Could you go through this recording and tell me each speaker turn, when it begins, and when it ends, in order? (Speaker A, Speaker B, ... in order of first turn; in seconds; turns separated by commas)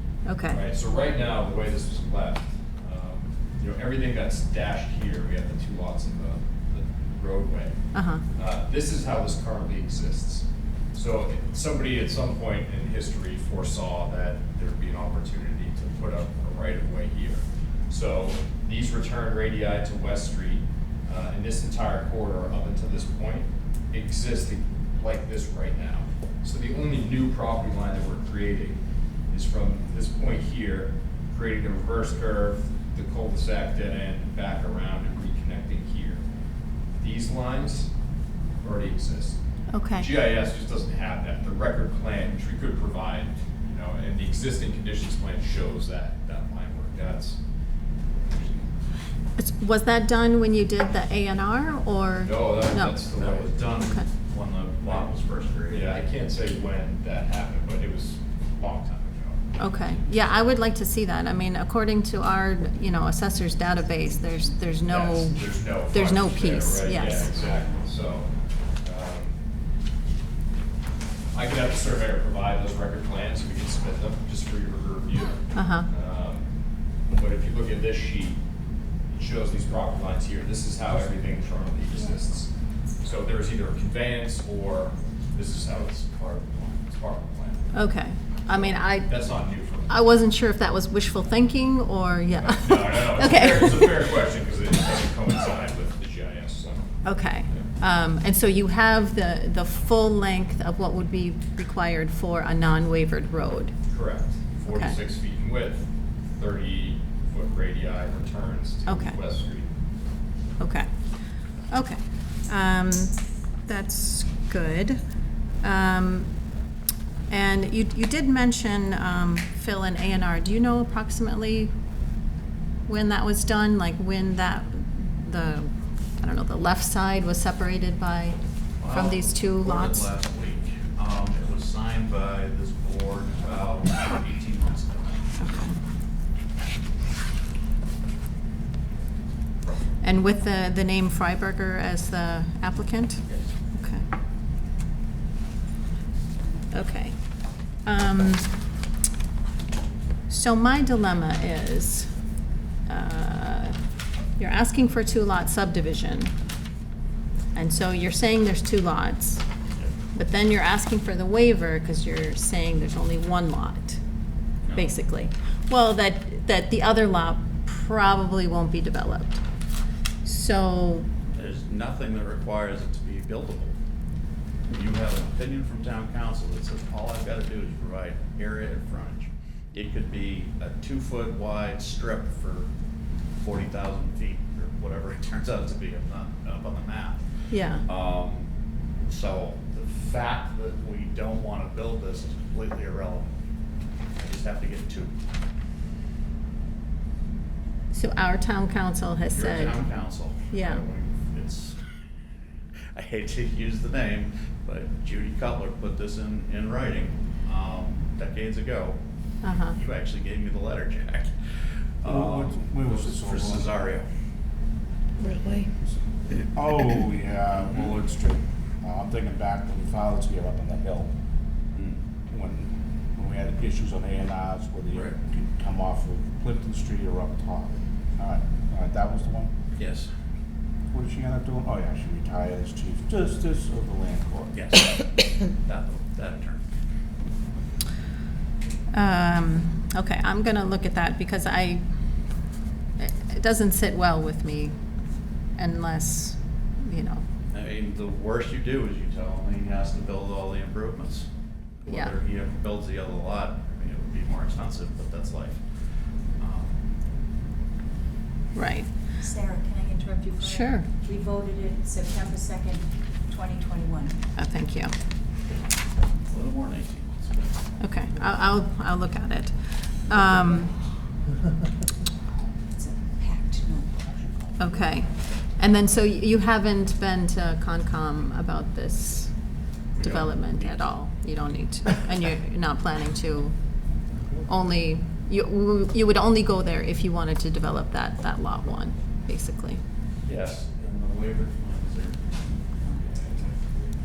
Speaker A: 0.2-0.6, Speaker B: 0.5-7.8, Speaker A: 7.9-8.2, Speaker B: 8.3-28.8, Speaker B: 29.3-36.2, Speaker B: 37.0-37.9, Speaker B: 38.6-39.4, Speaker A: 39.7-40.1, Speaker B: 40.0-47.4, Speaker B: 48.2-48.7, Speaker A: 49.4-53.0, Speaker B: 52.2-53.8, Speaker C: 53.1-56.0, Speaker B: 55.7-60.4, Speaker A: 59.6-67.3, Speaker B: 64.9-68.3, Speaker B: 68.8-69.4, Speaker B: 71.3-76.4, Speaker A: 75.5-75.9, Speaker B: 77.1-78.4, Speaker B: 79.1-87.8, Speaker A: 87.7-89.2, Speaker B: 88.5-90.1, Speaker A: 89.9-94.0, Speaker B: 92.3-96.9, Speaker A: 97.0-103.7, Speaker B: 103.9-109.7, Speaker A: 104.7-105.0, Speaker A: 108.8-109.2, Speaker A: 110.6-110.9, Speaker A: 111.7-113.1, Speaker A: 113.7-115.0, Speaker A: 115.6-116.3, Speaker A: 117.3-121.7, Speaker A: 122.9-130.1, Speaker C: 128.8-135.2, Speaker A: 135.4-135.8, Speaker A: 140.0-144.0, Speaker A: 146.7-147.1, Speaker A: 147.8-148.4, Speaker A: 150.3-152.1, Speaker A: 152.9-153.8, Speaker A: 154.4-156.3, Speaker A: 157.5-159.4, Speaker A: 160.1-164.0, Speaker C: 164.6-164.9, Speaker A: 164.7-169.4, Speaker A: 170.2-171.1, Speaker C: 171.3-173.7, Speaker C: 174.7-182.7, Speaker C: 183.4-188.5, Speaker A: 187.5-187.8, Speaker C: 189.1-193.3, Speaker C: 194.2-195.1, Speaker A: 197.9-199.8, Speaker C: 199.3-201.8, Speaker A: 200.5-200.8, Speaker C: 202.9-209.0, Speaker A: 209.4-209.8, Speaker C: 209.7-211.3, Speaker C: 212.0-214.1, Speaker D: 212.0-213.7, Speaker D: 216.4-221.1, Speaker C: 217.6-217.9, Speaker C: 221.7-222.0, Speaker D: 222.3-229.5, Speaker C: 229.8-230.1, Speaker D: 230.9-234.6, Speaker C: 234.5-236.6, Speaker A: 238.9-241.8, Speaker A: 243.0-244.7, Speaker A: 245.6-247.2, Speaker C: 247.5-251.3, Speaker C: 251.8-255.6, Speaker A: 251.8-252.1, Speaker C: 256.4-256.7, Speaker A: 258.5-258.9, Speaker E: 259.2-264.1, Speaker A: 260.4-260.9, Speaker A: 264.4-264.9, Speaker C: 266.3-267.6, Speaker A: 267.8-270.7, Speaker E: 272.8-273.9, Speaker A: 274.6-279.3, Speaker A: 279.9-283.5, Speaker C: 280.0-280.9, Speaker D: 284.1-284.5, Speaker A: 284.5-289.8, Speaker C: 290.2-293.6